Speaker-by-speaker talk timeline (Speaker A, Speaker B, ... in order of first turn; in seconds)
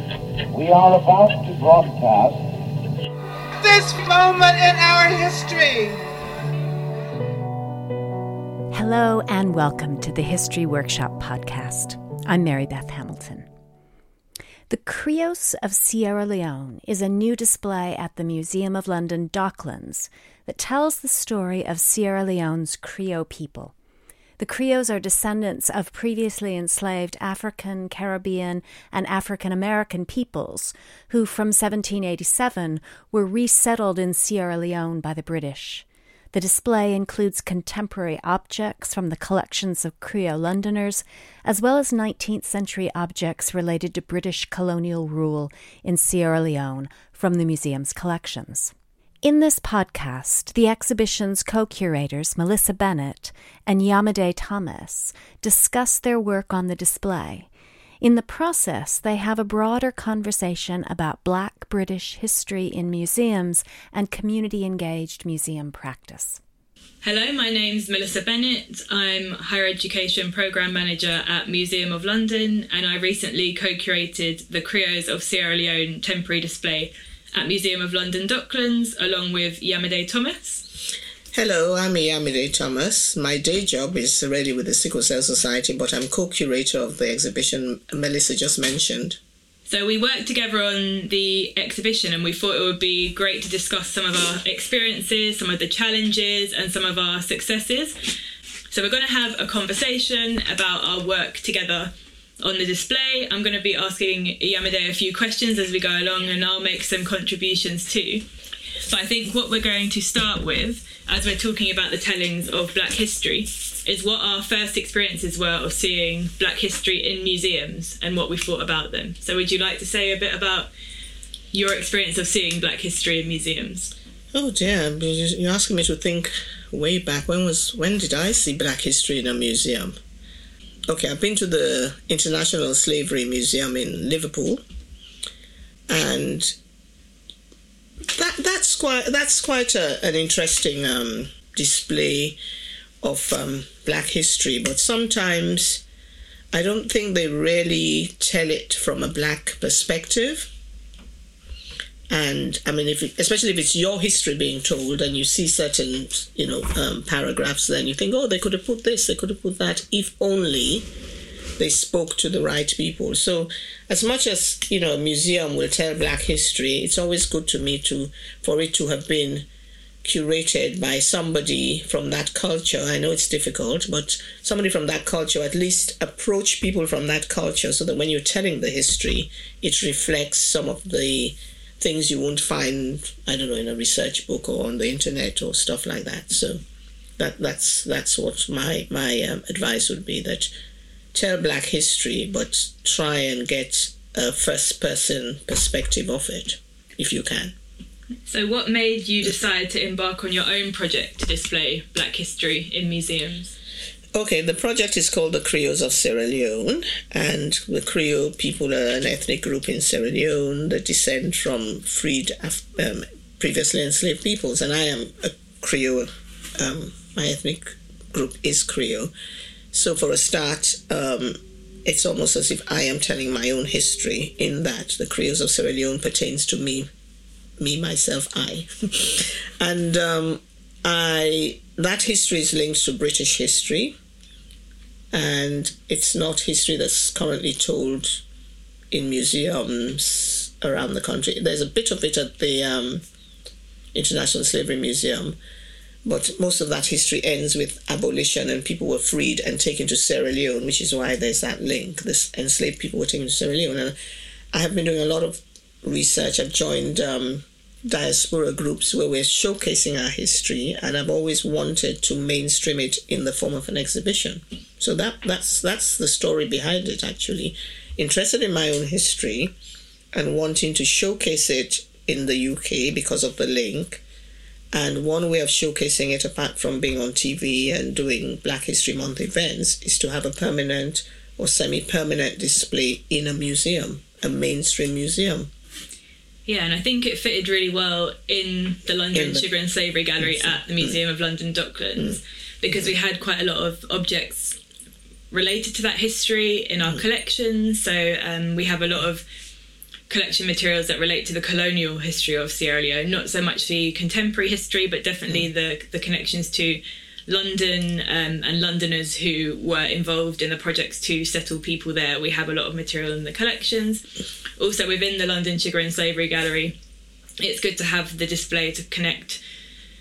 Speaker A: 0.5-2.5
Speaker B: 3.7-5.9
Speaker C: 3.7-4.9, 81.3-89.2, 124.3-130.0, 130.9-134.6, 135.9-136.6, 138.1-142.4, 143.0-145.8, 146.5-150.5, 152.1-160.8, 161.6-169.5, 170.0-186.6, 187.2-190.5, 191.1-197.5, 204.1-216.1, 216.6-219.1, 219.7-226.9, 227.6-234.0, 235.1-238.2, 238.9-243.0, 243.9-245.4, 246.0-253.9, 254.5-269.5, 270.1-274.0, 274.7-285.5, 289.1-289.4, 290.2-291.0
Speaker D: 8.7-13.5, 14.7-23.7, 24.4-57.5, 58.0-66.4
Speaker E: 67.0-80.6, 89.7-98.0, 98.7-108.2, 108.8-120.7, 121.5-123.9, 198.2-203.5, 286.4-294.6, 295.3-299.2, 300.1-314.0, 314.6-316.8, 317.4-319.4